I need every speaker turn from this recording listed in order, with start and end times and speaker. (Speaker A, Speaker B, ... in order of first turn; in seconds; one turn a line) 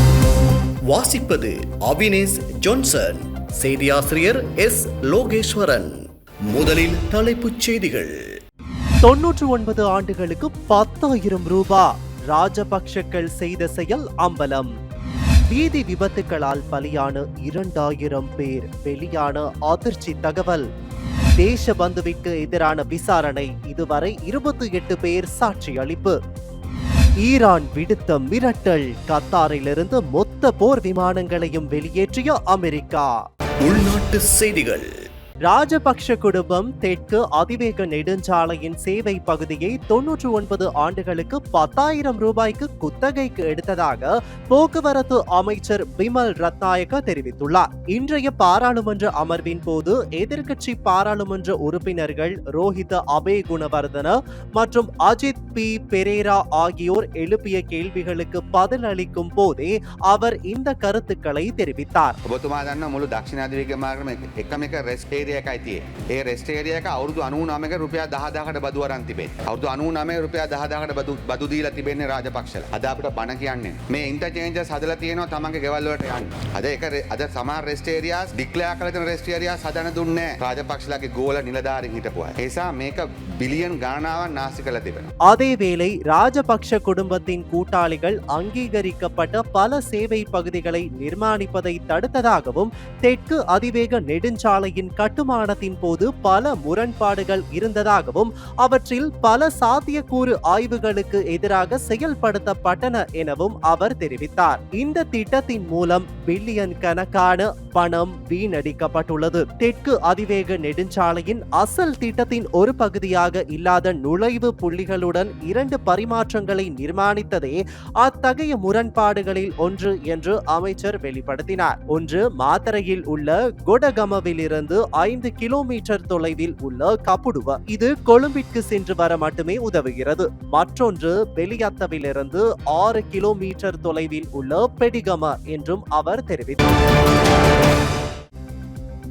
Speaker A: 0.9-8.2
Speaker B: 9.0-14.7
Speaker B: 15.5-20.7
Speaker B: 21.4-26.2
Speaker B: 27.2-33.2
Speaker A: 33.6-34.9
Speaker B: 35.5-62.2
Speaker C: 62.3-85.1
Speaker B: 85.3-136.6